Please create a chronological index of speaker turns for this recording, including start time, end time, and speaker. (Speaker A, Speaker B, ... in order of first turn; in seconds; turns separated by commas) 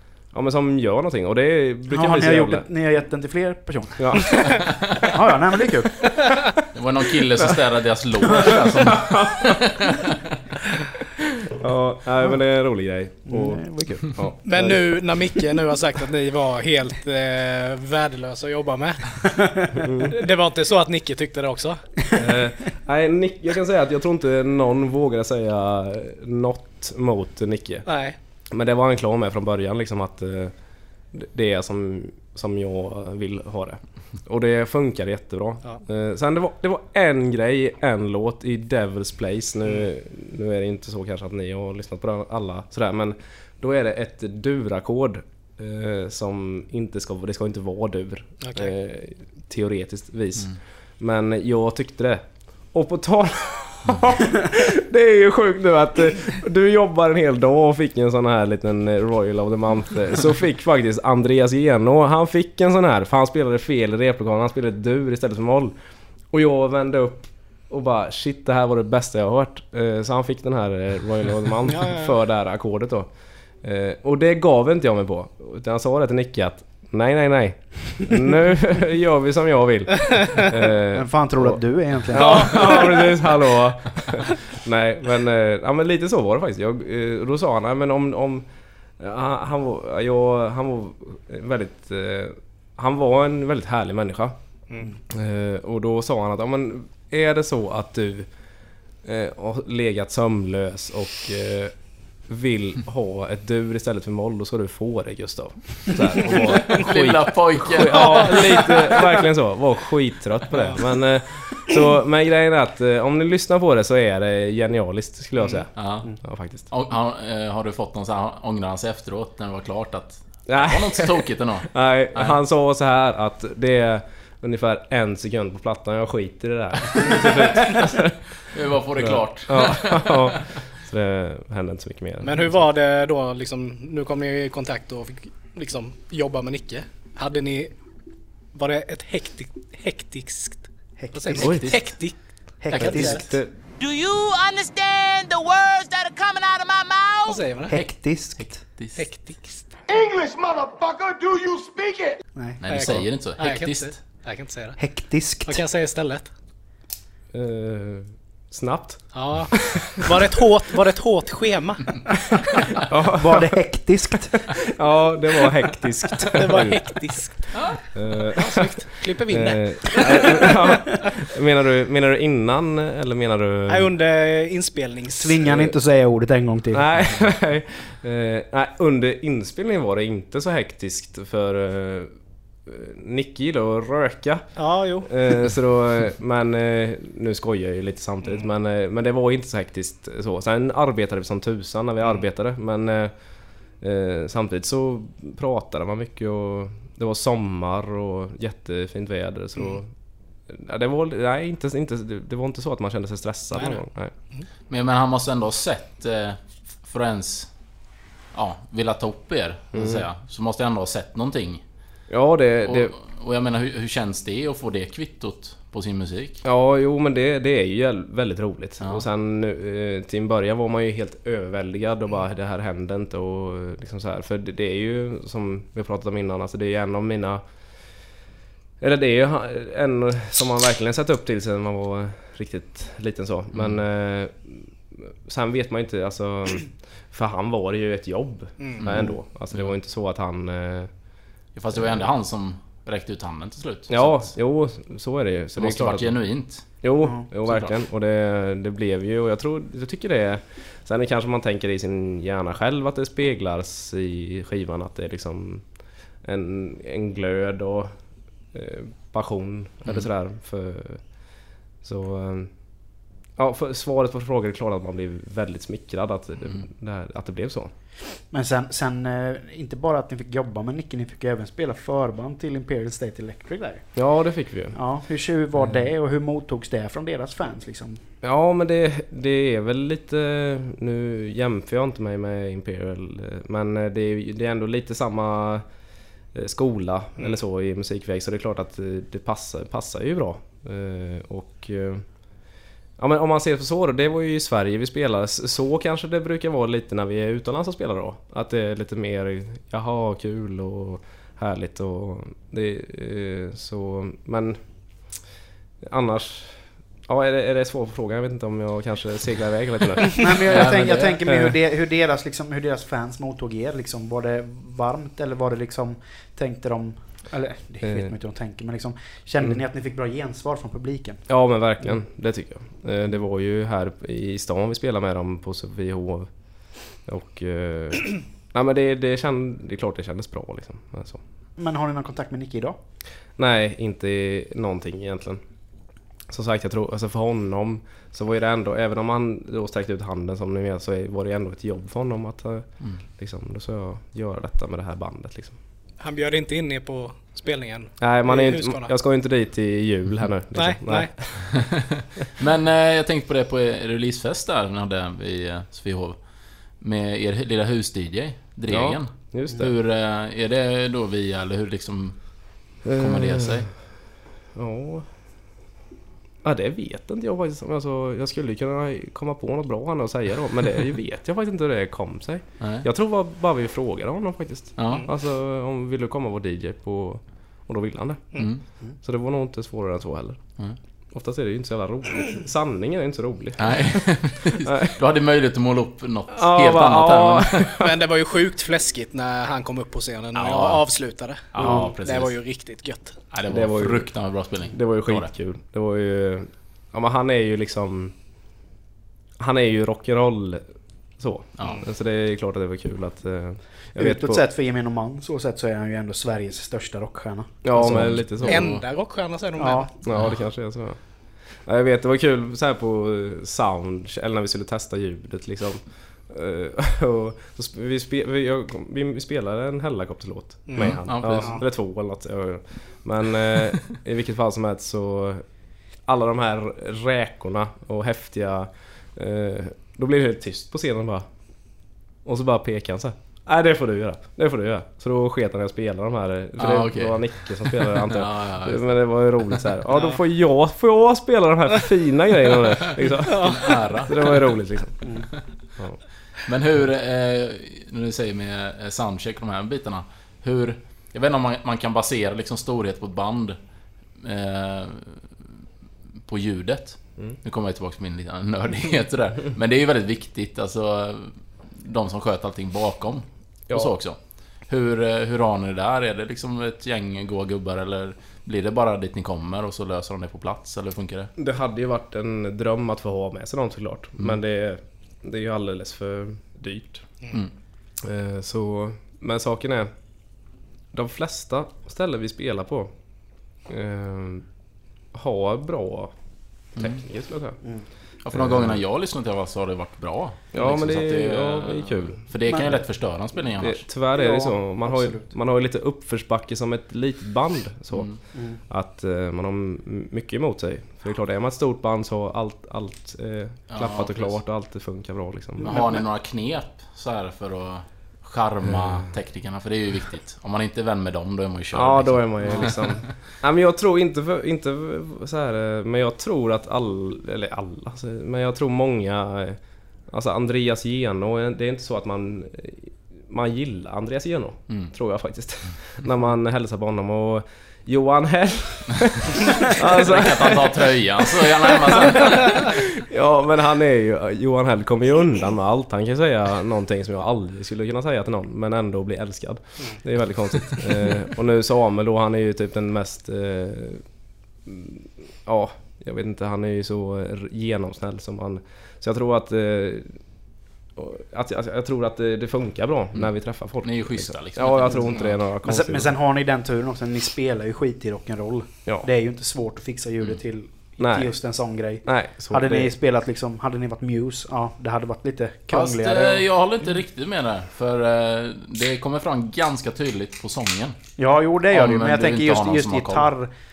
Speaker A: 0.3-2.7, Speaker B: 1.9-6.6, Speaker A: 4.0-4.7, Speaker C: 4.5-5.1, Speaker C: 6.7-10.3, Speaker A: 8.4-9.7, Speaker A: 11.0-15.0, Speaker B: 13.3-14.1, Speaker D: 14.4-21.8, Speaker A: 19.7-20.2, Speaker A: 22.1-27.9, Speaker D: 27.9-28.2, Speaker A: 28.5-30.5, Speaker A: 31.1-65.8, Speaker D: 48.4-48.7, Speaker A: 66.3-73.1, Speaker D: 71.7-72.1, Speaker A: 73.6-88.5, Speaker B: 80.9-82.9, Speaker D: 82.1-83.2, Speaker A: 89.0-94.4, Speaker A: 95.1-98.3, Speaker A: 99.0-101.7, Speaker A: 102.3-116.7, Speaker C: 106.2-108.8, Speaker C: 115.8-116.1, Speaker C: 116.7-122.4, Speaker A: 120.5-128.2, Speaker C: 128.5-130.5, Speaker A: 129.0-132.4, Speaker D: 132.2-137.7, Speaker D: 138.5-142.1, Speaker B: 141.0-141.6, Speaker C: 141.4-141.8, Speaker A: 141.4-141.7, Speaker B: 142.6-143.4, Speaker C: 142.7-143.2, Speaker D: 142.8-143.2, Speaker A: 143.1-143.5, Speaker E: 143.8-147.5, Speaker D: 147.3-147.8, Speaker B: 147.7-148.6, Speaker C: 148.4-149.0, Speaker D: 149.0-149.8, Speaker F: 149.9-152.2, Speaker B: 152.4-152.6, Speaker C: 152.6-154.0, Speaker D: 152.7-154.8, Speaker B: 154.8-155.6, Speaker D: 155.5-156.3, Speaker A: 157.3-160.4, Speaker D: 159.1-162.7, Speaker A: 162.7-163.5, Speaker B: 163.1-164.5, Speaker A: 164.5-167.0, Speaker D: 166.2-167.5, Speaker A: 167.9-173.9, Speaker D: 168.3-171.1, Speaker D: 173.7-175.5, Speaker B: 175.2-176.9, Speaker A: 175.5-175.7, Speaker A: 176.7-182.1, Speaker A: 182.7-184.5, Speaker D: 184.6-185.1, Speaker A: 185.0-193.1, Speaker A: 193.8-199.9, Speaker A: 200.5-204.1, Speaker C: 204.7-207.5, Speaker C: 208.3-211.6, Speaker A: 209.7-210.0, Speaker A: 212.1-212.9, Speaker C: 212.7-216.4, Speaker A: 216.4-227.4, Speaker A: 228.8-240.9, Speaker D: 238.6-238.9, Speaker C: 238.8-239.7, Speaker C: 241.6-244.3, Speaker A: 243.9-246.2, Speaker C: 245.6-246.7, Speaker A: 246.8-255.6, Speaker C: 247.4-247.8, Speaker A: 256.2-257.9, Speaker A: 258.5-261.0, Speaker A: 261.8-262.5, Speaker A: 263.4-267.7, Speaker B: 268.3-273.9, Speaker A: 273.9-274.8, Speaker B: 274.7-278.0, Speaker A: 278.2-285.6, Speaker A: 286.3-292.0, Speaker A: 293.0-304.6, Speaker A: 305.8-310.7, Speaker B: 310.1-321.2, Speaker C: 310.4-311.2, Speaker A: 311.3-311.6, Speaker A: 317.8-318.1, Speaker A: 321.3-326.3, Speaker A: 327.1-331.2, Speaker B: 331.6-332.8, Speaker A: 333.4-335.4, Speaker A: 336.3-345.6, Speaker D: 346.0-348.9, Speaker A: 348.0-351.4, Speaker D: 350.6-351.1, Speaker C: 351.4-356.2, Speaker C: 356.8-362.2, Speaker A: 358.7-359.7, Speaker A: 362.9-363.6, Speaker C: 362.9-363.7, Speaker A: 364.6-365.1, Speaker A: 366.4-378.4, Speaker C: 372.6-372.9, Speaker C: 374.8-375.1, Speaker C: 378.4-378.6, Speaker A: 379.0-380.4, Speaker A: 381.1-384.0, Speaker C: 383.6-387.8, Speaker A: 384.6-385.0, Speaker A: 386.3-388.0, Speaker D: 387.8-393.2, Speaker C: 390.4-390.9, Speaker C: 391.5-392.4, Speaker B: 391.6-391.9, Speaker C: 393.3-395.3, Speaker A: 393.5-394.1, Speaker A: 394.7-398.1, Speaker A: 399.4-400.6, Speaker A: 401.2-404.4, Speaker B: 404.0-407.6, Speaker A: 407.6-408.7, Speaker C: 407.8-408.8, Speaker D: 408.4-409.9, Speaker B: 409.6-409.9, Speaker A: 410.0-411.0, Speaker A: 411.6-425.4, Speaker D: 420.7-421.0, Speaker C: 420.8-421.6, Speaker A: 426.1-431.3, Speaker A: 432.2-445.2, Speaker C: 436.6-438.9, Speaker D: 443.2-443.9, Speaker C: 443.2-444.4, Speaker C: 446.4-453.6, Speaker C: 454.2-455.3, Speaker C: 456.3-471.3, Speaker A: 471.4-477.1, Speaker A: 478.0-479.9, Speaker A: 480.9-482.9, Speaker A: 483.7-484.5, Speaker A: 485.1-486.1, Speaker C: 486.8-487.0, Speaker A: 486.8-487.6, Speaker C: 488.2-493.9, Speaker A: 488.3-488.7, Speaker A: 490.5-492.3, Speaker A: 493.6-498.1, Speaker B: 494.1-495.3, Speaker C: 497.9-498.2, Speaker B: 498.3-498.6, Speaker A: 498.7-506.0, Speaker C: 503.7-504.4, Speaker C: 505.6-513.1, Speaker A: 511.7-544.0, Speaker C: 529.4-532.8, Speaker A: 544.7-550.2, Speaker A: 551.0-556.2, Speaker C: 553.8-555.4, Speaker B: 555.6-566.4, Speaker A: 561.0-561.3, Speaker A: 562.0-563.0, Speaker C: 565.7-571.0, Speaker B: 571.2-573.5, Speaker C: 571.7-573.3